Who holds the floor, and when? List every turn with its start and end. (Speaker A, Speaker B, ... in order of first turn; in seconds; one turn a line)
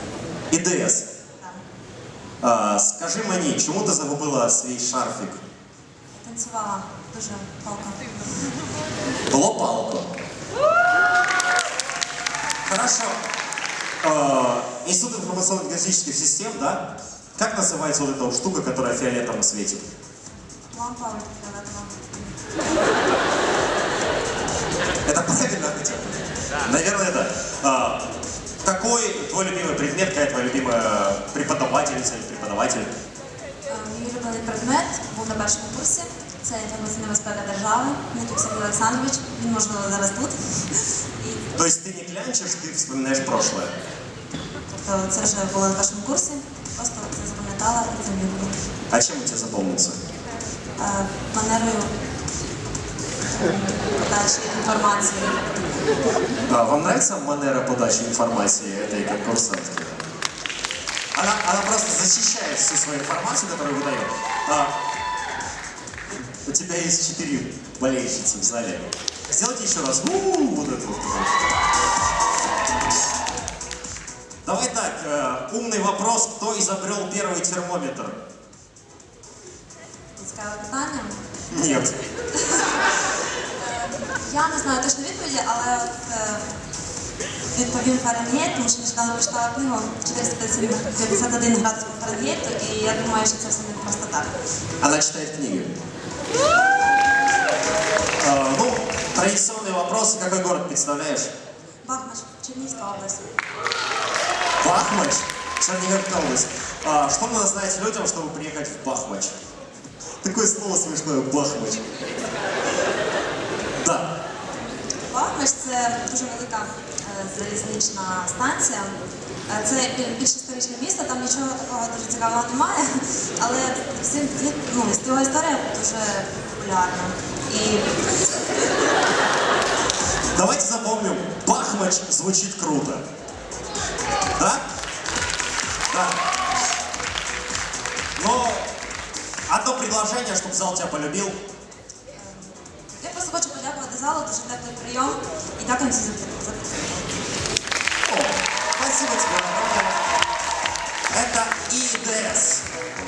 Speaker A: 0.5-1.1
Speaker A: 2.4-5.4
Speaker B: 6.1-8.0
Speaker A: 9.3-10.1
Speaker A: 12.7-13.2
Speaker A: 14.0-19.8
Speaker B: 20.7-22.4
Speaker A: 25.1-28.1
Speaker A: 28.6-32.9
Speaker B: 33.7-41.5
Speaker A: 41.5-43.7
Speaker B: 44.7-48.6
Speaker A: 48.9-50.0
Speaker B: 50.8-51.9
Speaker B: 53.4-55.4
Speaker A: 56.5-60.1
Speaker A: 61.1-64.7
Speaker A: 66.5-71.3
Speaker A: 74.4-78.2
Speaker B: 80.2-81.2
Speaker A: 81.5-82.0
Speaker B: 82.3-82.9
Speaker B: 83.6-86.5
Speaker B: 87.5-94.3
Speaker A: 94.8-95.7
Speaker A: 98.2-101.3
Speaker B: 101.8-103.3
Speaker A: 104.6-109.3
Speaker A: 110.2-111.9
Speaker A: 113.8-114.2
Speaker B: 115.1-119.0
Speaker B: 119.5-128.8
Speaker A: 130.3-133.0
Speaker A: 134.4-134.6
Speaker A: 135.9-136.2
Speaker A: 138.2-138.7
Speaker A: 139.5-141.4
Speaker B: 142.1-147.2
Speaker A: 148.1-150.0
Speaker A: 151.1-152.7